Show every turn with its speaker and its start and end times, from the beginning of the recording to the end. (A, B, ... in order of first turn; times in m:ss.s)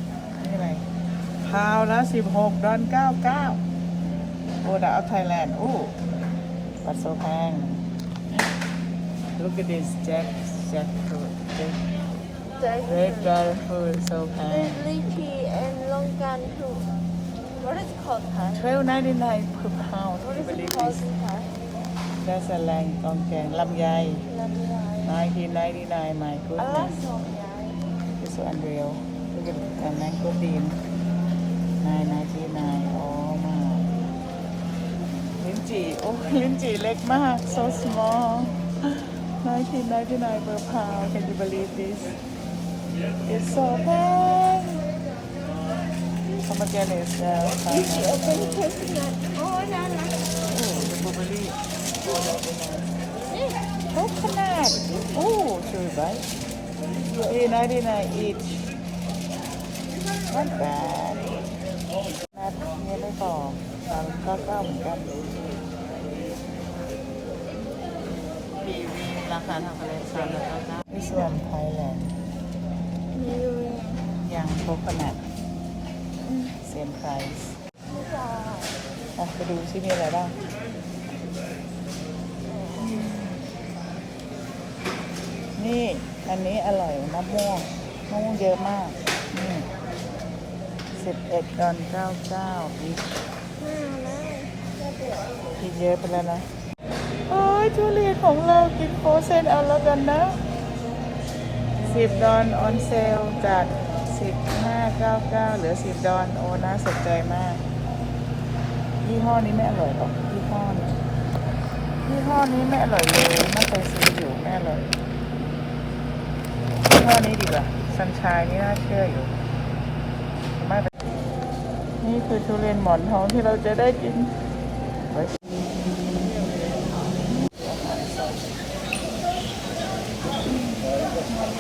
0:00.4-0:00.9 A
0:01.4-0:03.6 A
0:04.6-0:06.0 A
0:06.8-0:07.9 A
0:09.4-0:11.8 A
0:12.6-0:12.9 B
0:12.8-0:15.0 A
0:14.6-0:16.9 B
0:17.6-0:18.5 B
0:18.5-0:21.1 A
0:20.3-0:21.5 B
0:22.2-0:24.3 A
0:24.4-0:25.0 B
0:25.0-0:27.3 A
0:26.8-0:27.8 B
0:28.2-0:30.8 A
0:31.8-0:34.0 A
0:35.4-0:42.2 A
0:43.2-0:44.8 A
0:46.4-0:48.6 A
0:47.9-0:50.3 B
0:50.5-0:52.9 A
0:53.9-0:56.3 A
0:57.2-0:58.6 A
1:00.3-1:01.4 A
1:02.3-1:05.3 A
1:08.6-1:12.2 A
1:13.1-1:14.0 B
1:14.2-1:15.2 A
1:16.4-1:17.6 A
1:18.0-1:18.7 B
1:19.2-1:20.4 A
1:22.5-1:22.8 B
1:22.8-1:23.5 A
1:25.6-1:29.7 A
1:30.9-1:33.1 A
1:33.6-1:34.7 B
1:35.6-1:36.5 A
1:37.3-1:40.4 A
1:41.8-1:47.6 A
1:49.0-1:51.0 A
1:52.0-1:55.0 A
1:56.9-1:59.3 A
2:00.6-2:00.9 A
2:02.0-2:04.4 A
2:05.1-2:06.7 A
2:07.3-2:08.5 A
2:10.5-2:11.0 A